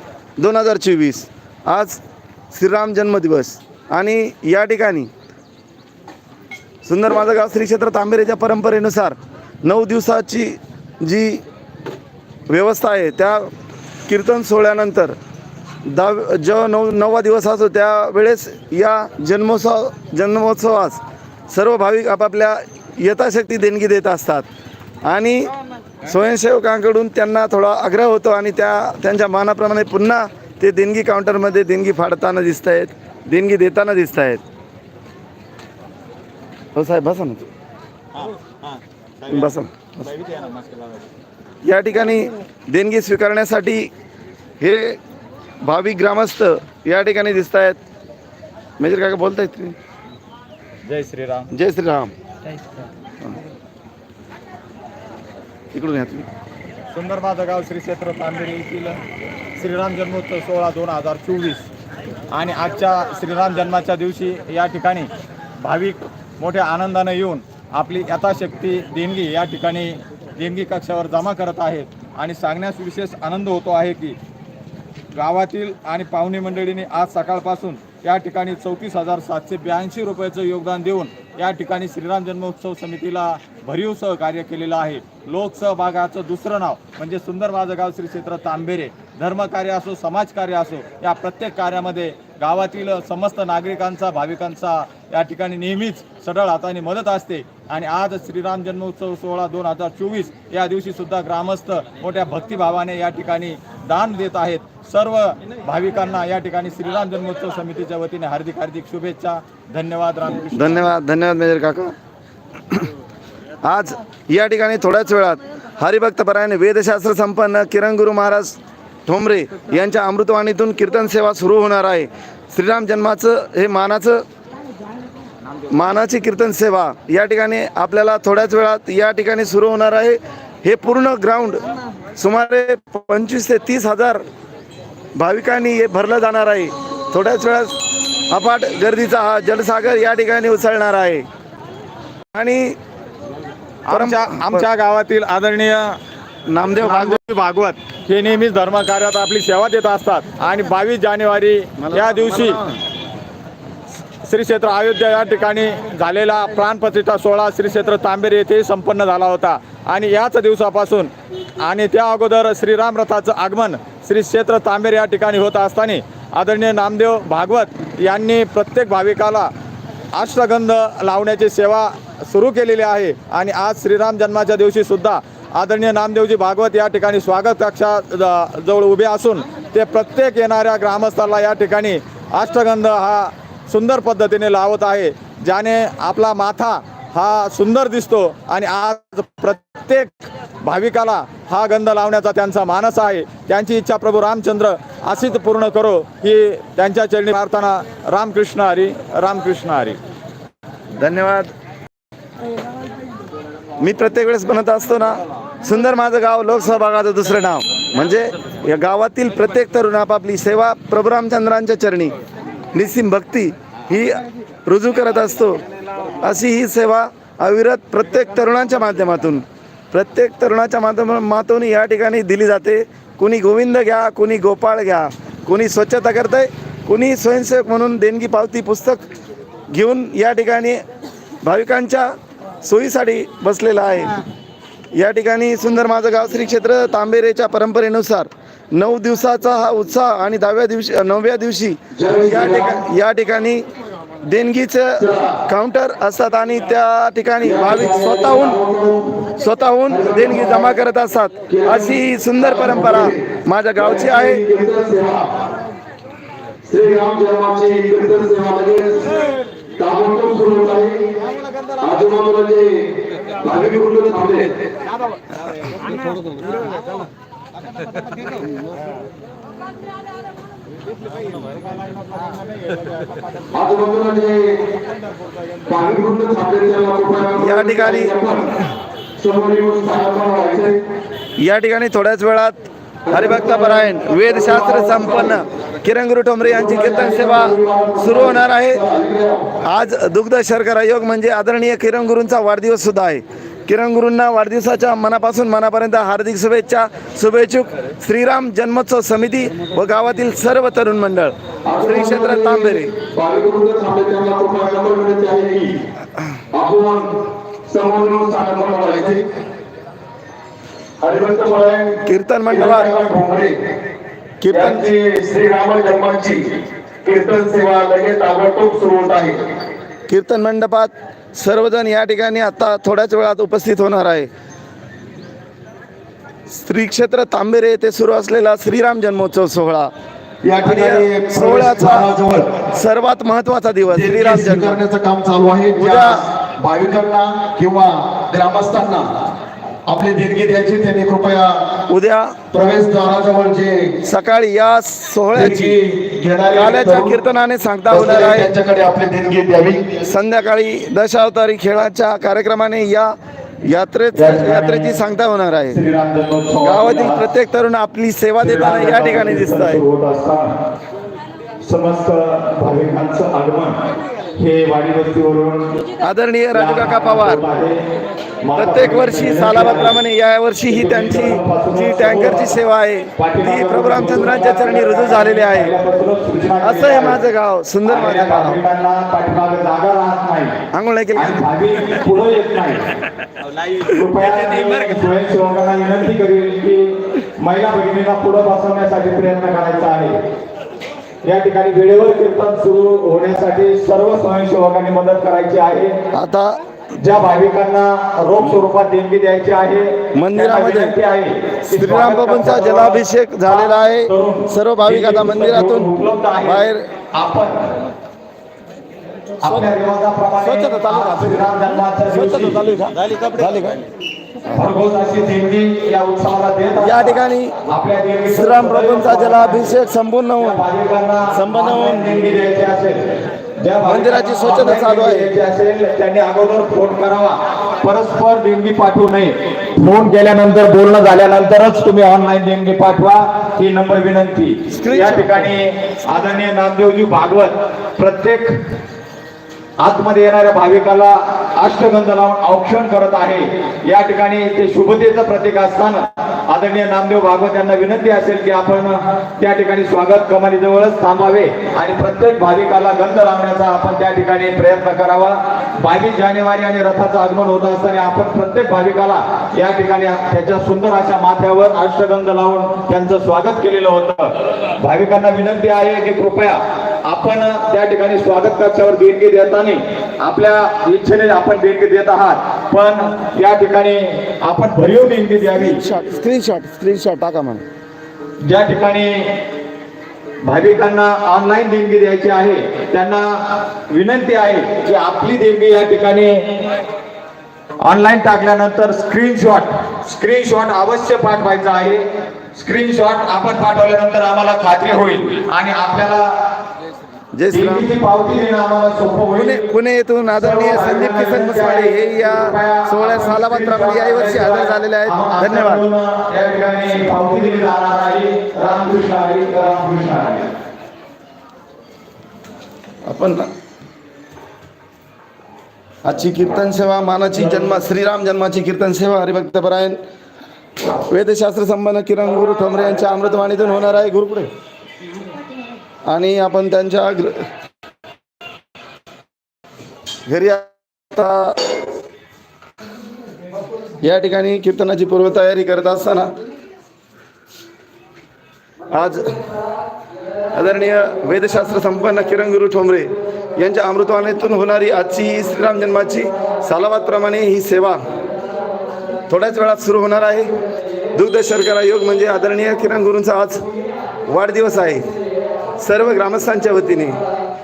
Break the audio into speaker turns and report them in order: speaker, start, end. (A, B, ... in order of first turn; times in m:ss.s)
0:00.4-0:05.1 A
0:06.8-0:11.4 A
0:12.5-0:13.5 A
0:14.1-0:15.2 A
0:15.8-0:24.4 A
0:25.0-0:25.5 A
0:26.0-0:34.4 A
0:36.7-0:37.5 A
0:38.1-0:41.1 B
0:39.3-0:39.9 A
0:41.6-0:43.9 A
0:44.6-0:45.0 A
0:45.6-0:47.8 A
0:48.8-0:49.8 A
0:50.8-0:51.5 B
0:51.5-0:52.1 A
0:52.5-0:52.8 B
0:55.7-0:56.3 A
0:56.9-0:59.0 B
0:59.6-1:01.7 B
1:02.3-1:14.2 B
1:15.1-1:50.9 B
1:50.5-1:51.9 A
1:53.6-2:04.2 A
2:05.7-2:11.6 A
2:12.2-2:14.2 A
2:15.2-2:21.2 A
2:22.3-2:22.8 A
2:23.9-2:26.0 B
2:23.9-2:24.6 A
2:26.5-2:27.2 A
2:26.8-2:32.6 B
2:31.8-2:32.8 A
2:34.2-2:49.5 B
2:50.1-3:20.0 B
3:21.0-3:21.5 A
3:23.8-3:32.1 A
3:32.7-3:35.6 A
3:36.2-3:49.0 A
3:49.7-3:50.8 A
3:51.4-3:54.2 A
3:54.9-4:03.6 A
4:01.9-4:02.8 C
4:04.2-4:08.6 A
4:05.0-4:05.4 C
4:07.4-4:09.2 C
4:09.4-4:14.4 A
4:09.9-4:10.8 C
4:11.5-4:13.2 C
4:13.8-4:15.3 C
4:16.6-4:19.2 C
4:19.8-4:21.0 C
4:21.8-4:24.5 C
4:33.5-4:34.6 C
4:35.6-4:38.5 C
4:37.4-4:38.1 A
4:39.2-4:40.8 C
4:41.4-4:48.8 A
4:43.1-4:45.4 C
4:46.5-4:49.4 C
4:49.7-5:02.9 A
5:01.7-5:05.8 C
5:06.5-5:09.2 C
5:11.0-5:13.6 C
5:12.0-5:12.9 A
5:14.4-5:14.9 A
5:14.5-5:16.4 C
5:17.0-5:19.4 C
5:20.1-5:24.3 A
5:26.5-5:29.9 A
5:30.4-5:32.6 C
5:30.6-5:32.0 A
5:32.7-5:34.8 A
5:33.9-5:39.1 C
5:35.8-5:36.2 A
5:39.9-5:41.7 C
5:41.9-5:42.4 A
5:42.5-5:44.0 C
5:44.0-5:45.8 A
5:45.3-5:47.2 C
5:46.5-5:48.5 A
5:47.9-5:50.0 C
5:50.0-5:53.1 A
5:53.7-5:55.8 A
5:54.1-5:55.0 B
5:55.7-5:57.2 B
5:56.6-5:59.8 A
5:58.4-6:00.5 B
6:01.6-6:03.8 B
6:04.4-6:05.8 B
6:06.0-6:07.4 A
6:06.5-6:07.8 B
6:08.4-6:10.0 B
6:08.6-6:15.7 A
6:10.6-6:12.6 B
6:13.2-6:17.2 B
6:16.6-6:18.6 A
6:17.8-6:20.6 B
6:20.7-6:21.4 A
6:21.2-6:30.2 B
6:31.2-6:36.0 B
6:36.1-6:36.6 A
6:37.0-6:47.8 B
6:40.1-6:40.9 A
6:41.7-6:46.9 A
6:49.4-6:52.8 B
6:50.4-6:53.8 A
6:54.5-6:59.7 B
6:56.8-6:57.6 A
6:58.3-7:00.6 A
7:00.4-7:18.5 B
7:01.3-7:02.4 A
7:03.8-7:05.3 A
7:14.7-7:15.5 A
7:19.8-7:55.8 B
7:55.5-7:57.6 A
7:58.4-7:59.4 B
8:00.4-8:06.5 B
8:07.8-8:12.0 B
8:12.5-8:16.3 B
8:17.3-8:17.9 A
8:17.5-8:19.7 B
8:19.4-8:25.8 A
8:20.3-8:30.5 B
8:33.0-8:33.5 A
8:36.0-8:40.0 A
8:40.9-8:44.5 A
8:46.1-8:47.4 A
8:50.3-8:51.6 A
8:54.0-8:56.3 A
8:58.9-8:59.4 A
9:00.5-9:08.0 A
9:09.3-9:10.5 A
9:11.1-9:13.6 A
9:14.3-9:15.1 A
9:15.8-9:17.2 A